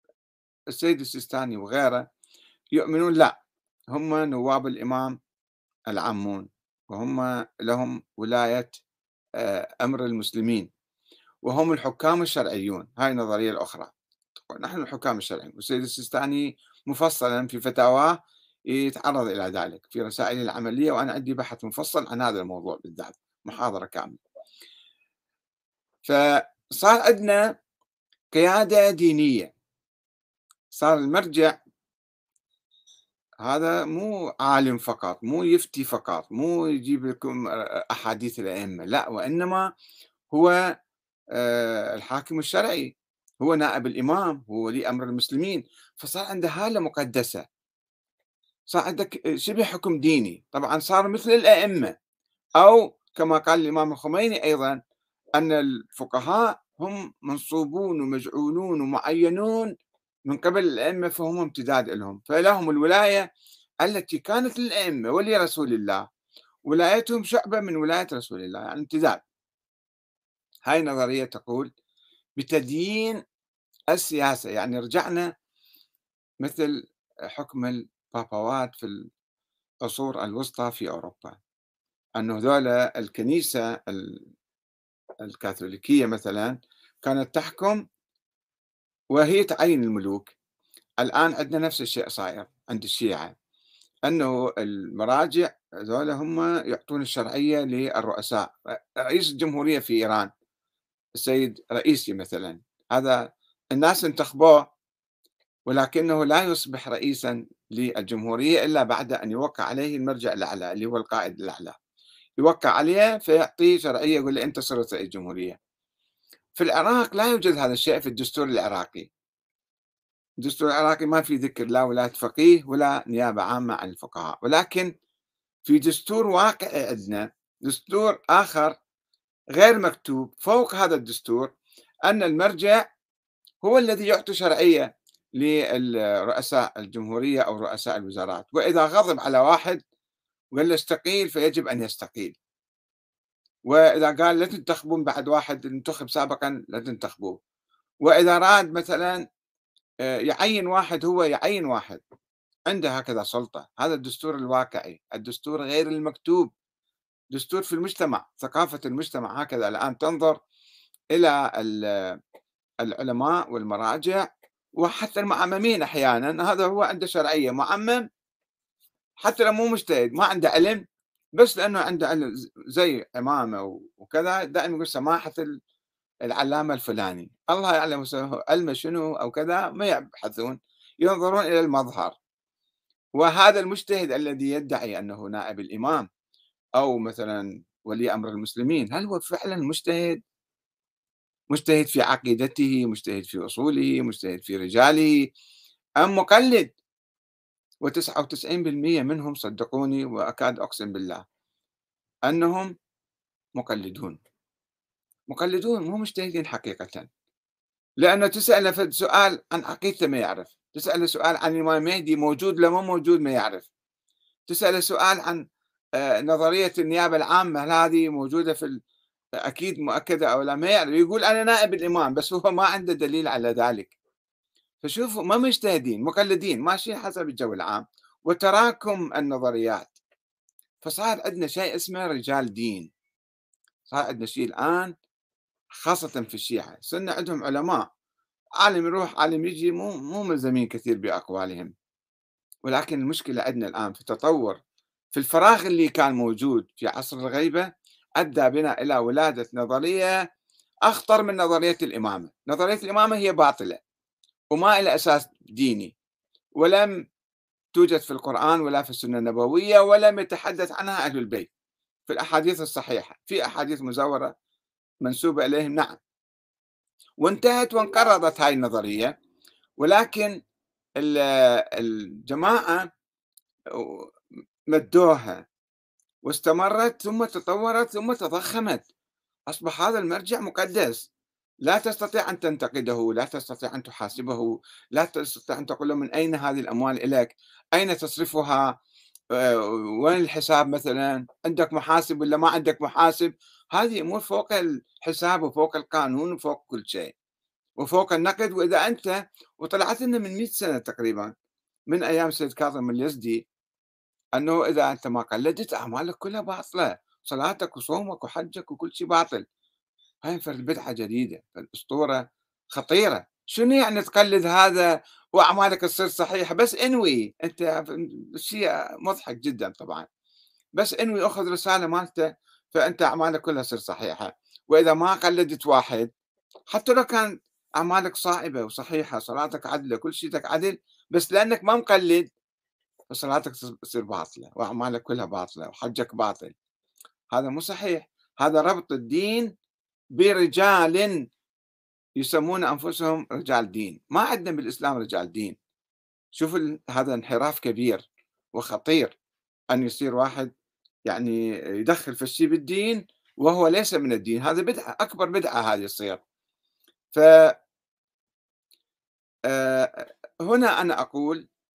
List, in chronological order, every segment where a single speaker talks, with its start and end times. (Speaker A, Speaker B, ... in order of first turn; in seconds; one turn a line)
Speaker A: 0.7-2.0
Speaker A: 2.8-3.3
Speaker A: 3.9-5.2
Speaker A: 5.9-8.8
Speaker A: 9.4-10.7
Speaker A: 11.5-13.9
Speaker A: 14.5-18.1
Speaker A: 18.7-24.2
Speaker A: 26.0-27.4
Speaker A: 28.3-29.5
Speaker A: 30.7-31.6
Speaker A: 33.4-39.6
Speaker A: 41.4-47.4
Speaker A: 48.7-51.9
Speaker A: 52.6-54.8
Speaker A: 55.4-59.7
Speaker A: 60.3-63.2
Speaker A: 63.8-66.0
Speaker A: 66.7-69.2
Speaker A: 70.7-71.7
Speaker A: 72.4-73.2
Speaker A: 73.9-75.3
Speaker A: 76.4-79.1
Speaker A: 79.8-81.4
Speaker A: 82.2-84.2
Speaker A: 85.2-87.8
Speaker A: 89.1-90.4
Speaker A: 91.0-93.3
Speaker A: 94.1-98.5
Speaker A: 99.0-100.3
Speaker A: 101.2-103.2
Speaker A: 103.7-104.6
Speaker A: 105.7-111.8
Speaker A: 112.4-115.6
Speaker A: 116.6-119.1
Speaker A: 120.4-124.9
Speaker A: 125.7-128.8
Speaker A: 129.6-131.5
Speaker A: 132.1-132.8
Speaker A: 133.6-134.9
Speaker A: 135.4-139.8
Speaker A: 140.6-142.4
Speaker A: 143.7-147.4
Speaker A: 148.1-149.2
Speaker A: 150.1-152.0
Speaker A: 152.7-156.5
Speaker A: 157.3-160.4
Speaker A: 161.2-162.2
Speaker A: 162.8-164.2
Speaker A: 164.8-168.1
Speaker A: 169.2-170.8
Speaker A: 171.4-175.4
Speaker A: 176.3-182.2
Speaker A: 183.2-186.1
Speaker A: 186.8-190.2
Speaker A: 191.5-195.2
Speaker A: 196.0-196.7
Speaker A: 197.8-201.2
Speaker A: 202.3-202.7
Speaker A: 203.6-204.2
Speaker A: 205.3-207.1
Speaker A: 208.0-213.7
Speaker A: 214.5-215.4
Speaker A: 216.0-218.8
Speaker A: 219.5-224.0
Speaker A: 224.8-230.0
Speaker A: 230.8-232.9
Speaker A: 233.9-234.9
Speaker A: 235.8-237.8
Speaker A: 238.6-241.7
Speaker A: 242.7-244.6
Speaker A: 245.1-247.7
Speaker A: 248.2-250.1
Speaker A: 250.9-253.8
Speaker A: 254.5-255.9
Speaker A: 256.6-256.9
Speaker A: 257.8-261.5
Speaker A: 262.1-264.3
Speaker A: 265.0-266.0
Speaker A: 267.2-269.1
Speaker A: 269.8-270.4
Speaker A: 271.0-272.9
Speaker A: 273.8-274.1
Speaker A: 274.7-275.4
Speaker A: 276.3-278.9
Speaker A: 279.5-281.1
Speaker A: 281.6-288.7
Speaker A: 289.4-297.1
Speaker A: 297.8-301.3
Speaker A: 301.9-303.5
Speaker A: 304.4-309.4
Speaker A: 310.2-320.1
Speaker A: 320.8-326.1
Speaker A: 326.7-332.3
Speaker A: 333.1-336.6
Speaker A: 337.3-339.5
Speaker A: 340.2-341.1
Speaker A: 342.2-345.6
Speaker A: 346.4-348.0
Speaker A: 348.6-349.2
Speaker A: 349.7-350.5
Speaker A: 351.1-356.2
Speaker A: 359.5-361.4